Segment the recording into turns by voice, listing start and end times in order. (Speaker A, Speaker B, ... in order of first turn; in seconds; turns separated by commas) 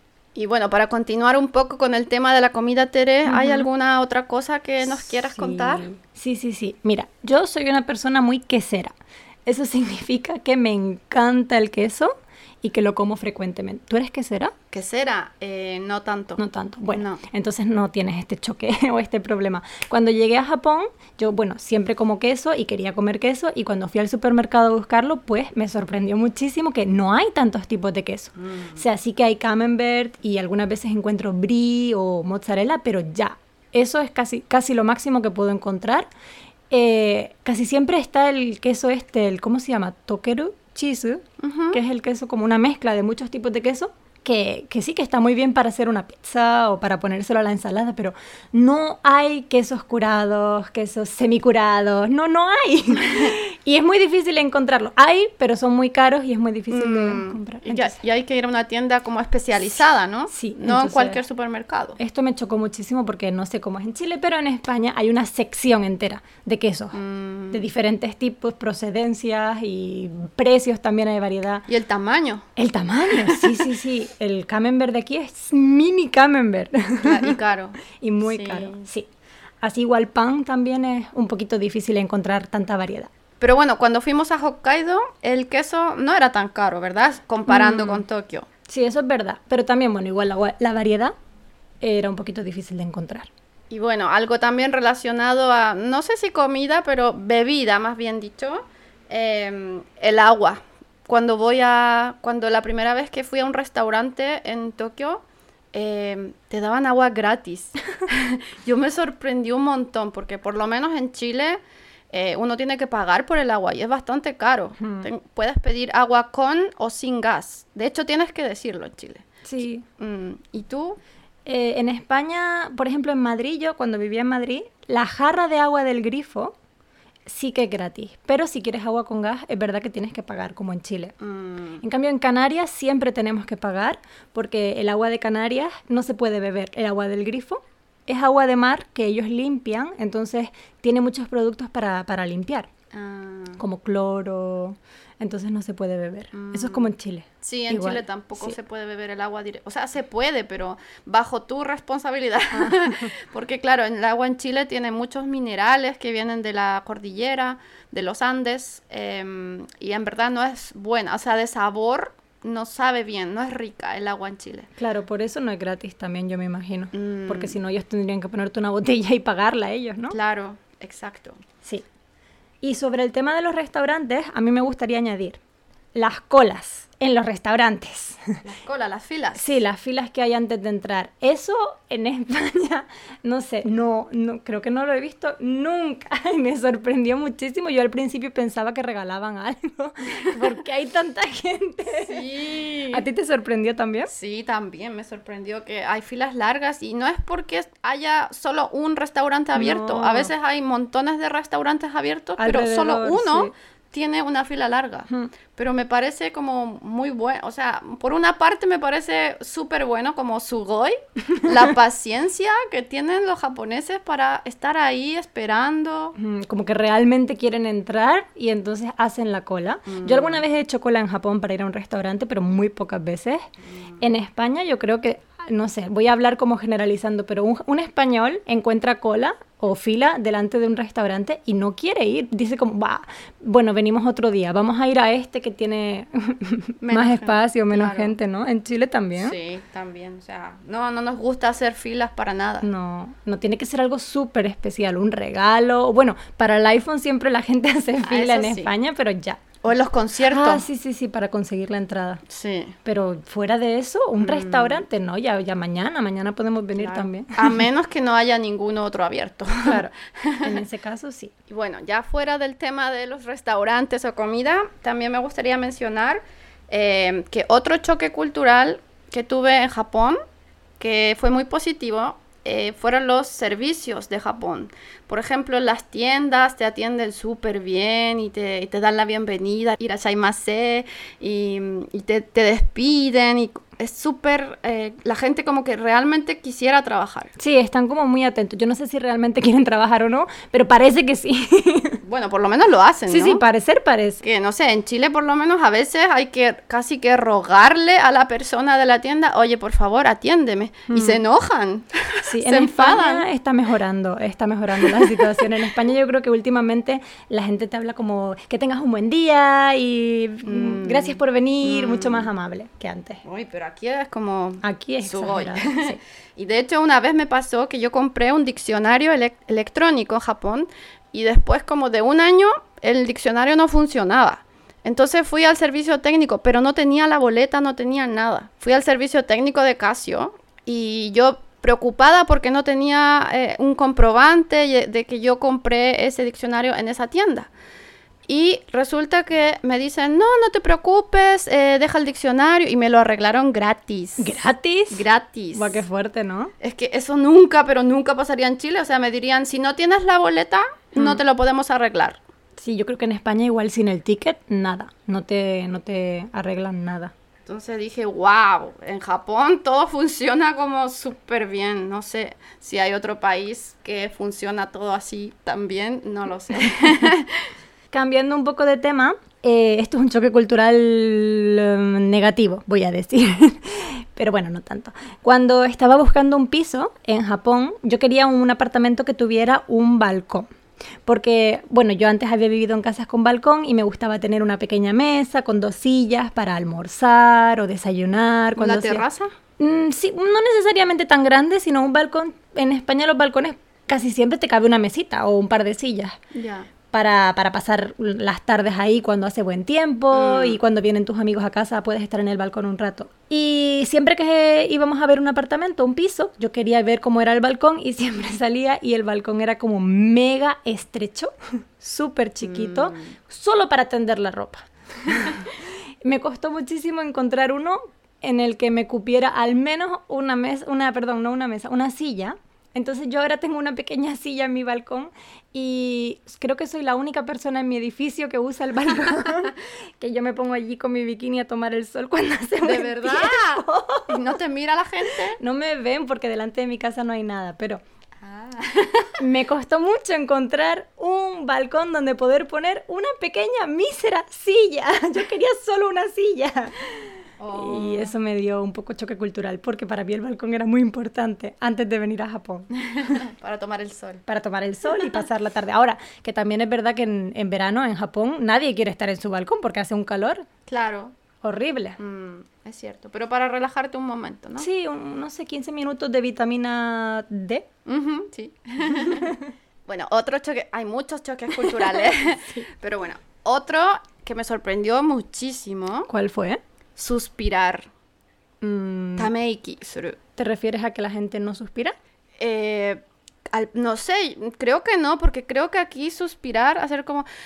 Speaker A: 0.3-5.8, Speaker B: 3.2-3.7, Speaker B: 4.8-8.9, Speaker B: 9.4-14.5, Speaker A: 14.7-17.2, Speaker B: 16.4-36.1, Speaker A: 28.4-28.9, Speaker B: 36.7-58.0, Speaker A: 41.4-41.8, Speaker A: 53.0-53.3, Speaker A: 56.7-62.0, Speaker B: 60.3-61.2, Speaker B: 62.0-67.0, Speaker A: 66.9-67.6, Speaker B: 67.5-71.7, Speaker A: 71.7-72.5, Speaker B: 72.5-77.4, Speaker A: 73.1-73.7, Speaker A: 77.0-78.8, Speaker B: 78.0-79.1, Speaker B: 79.6-83.1, Speaker A: 83.4-88.5, Speaker B: 87.5-88.0, Speaker B: 88.7-91.1, Speaker B: 91.8-93.3, Speaker A: 93.7-111.6, Speaker A: 112.1-121.0, Speaker B: 114.8-115.1, Speaker B: 119.4-119.8, Speaker B: 121.5-126.5, Speaker B: 127.3-131.1, Speaker A: 131.2-131.8, Speaker B: 131.8-142.7, Speaker A: 142.9-143.6, Speaker B: 143.6-148.6, Speaker A: 146.3-164.7, Speaker B: 152.5-153.1, Speaker B: 164.8-170.2, Speaker A: 166.9-167.6, Speaker A: 170.1-171.4, Speaker B: 172.6-175.4, Speaker B: 175.9-178.4, Speaker A: 178.4-179.6, Speaker B: 179.3-192.3, Speaker A: 192.0-193.0, Speaker B: 192.9-194.1, Speaker A: 194.1-216.2, Speaker B: 199.5-200.3, Speaker B: 202.4-203.5, Speaker B: 216.2-223.4, Speaker A: 219.9-220.4, Speaker B: 224.0-239.3, Speaker A: 236.8-238.1, Speaker A: 239.2-242.7, Speaker B: 242.6-249.4, Speaker A: 248.0-248.7, Speaker A: 249.6-250.6, Speaker B: 250.2-252.2, Speaker A: 252.3-252.8, Speaker B: 252.8-257.6, Speaker A: 254.2-254.8, Speaker A: 256.7-260.6, Speaker B: 259.6-261.3, Speaker A: 261.5-270.2, Speaker A: 270.8-287.3, Speaker B: 287.4-292.0, Speaker A: 292.0-293.4, Speaker B: 293.1-294.2, Speaker A: 294.2-303.3, Speaker B: 300.9-301.2, Speaker B: 302.2-313.2, Speaker A: 304.8-305.5, Speaker A: 310.4-312.3, Speaker A: 313.2-337.5, Speaker B: 314.6-316.0, Speaker A: 338.2-344.4, Speaker B: 344.2-346.5, Speaker A: 344.9-345.8, Speaker A: 346.6-352.2, Speaker B: 350.9-351.2, Speaker B: 352.6-357.1, Speaker A: 357.4-367.5, Speaker B: 367.9-380.5, Speaker B: 381.1-389.0, Speaker A: 388.6-389.3, Speaker B: 389.6-396.2, Speaker A: 396.3-396.7, Speaker B: 396.9-434.2, Speaker A: 400.1-400.6, Speaker A: 412.4-413.1, Speaker A: 432.6-435.4, Speaker B: 435.4-437.8, Speaker A: 438.2-439.1, Speaker B: 439.2-446.8, Speaker A: 447.4-448.1, Speaker B: 447.5-452.7, Speaker A: 452.7-454.2, Speaker B: 454.3-460.4, Speaker A: 460.7-461.1, Speaker B: 461.4-462.0, Speaker A: 462.0-464.7, Speaker B: 464.6-467.6, Speaker A: 467.9-469.3, Speaker B: 468.9-469.5, Speaker A: 469.9-476.1, Speaker B: 471.7-472.7, Speaker B: 476.1-476.6, Speaker A: 477.0-477.9, Speaker B: 478.6-479.3, Speaker A: 479.2-480.2, Speaker B: 480.4-481.9, Speaker A: 482.4-487.3